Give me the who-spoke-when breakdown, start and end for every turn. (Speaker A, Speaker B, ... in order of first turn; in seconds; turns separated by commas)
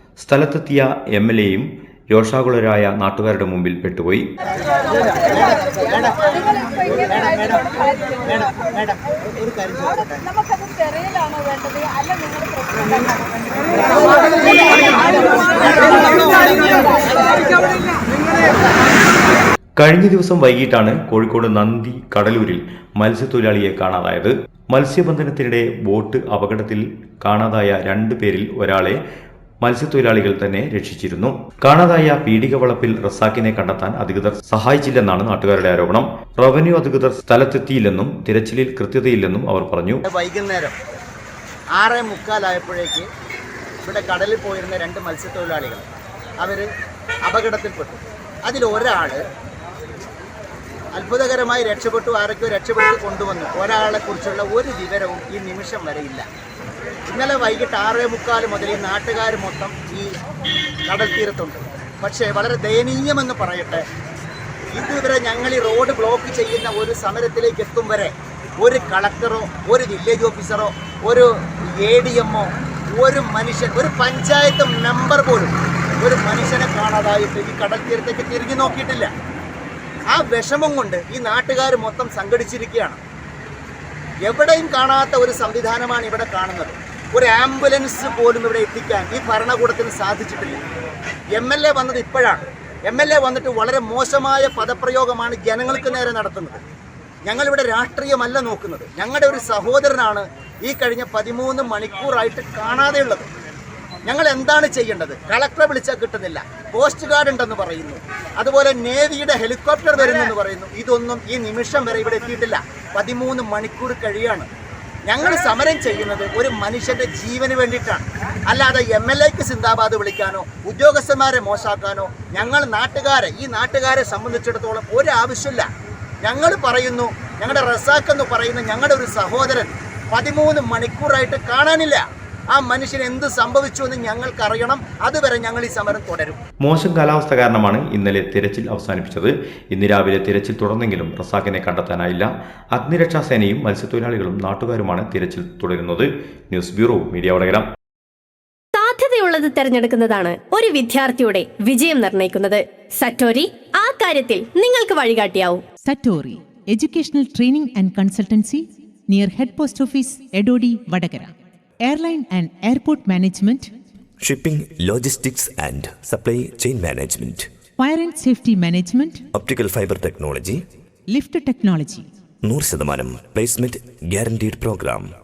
Speaker A: 0.2-4.3, Speaker B: 4.9-10.3, Speaker B: 13.9-17.6, Speaker A: 19.8-29.0, Speaker A: 29.6-40.0, Speaker B: 40.0-40.7, Speaker B: 41.7-43.1, Speaker B: 43.8-45.8, Speaker B: 46.4-46.7, Speaker B: 47.2-49.2, Speaker B: 50.9-56.2, Speaker B: 57.1-60.1, Speaker B: 60.9-63.8, Speaker B: 64.7-79.1, Speaker B: 80.1-83.0, Speaker B: 84.2-90.6, Speaker B: 91.3-96.6, Speaker B: 97.2-103.3, Speaker B: 104.0-114.5, Speaker B: 115.0-125.7, Speaker B: 126.2-136.4, Speaker A: 136.6-147.7, Speaker C: 148.7-155.6, Speaker D: 155.8-163.7, Speaker E: 164.2-167.5, Speaker D: 167.8-169.2, Speaker E: 169.3-170.6, Speaker D: 171.1-172.1, Speaker E: 172.4-175.1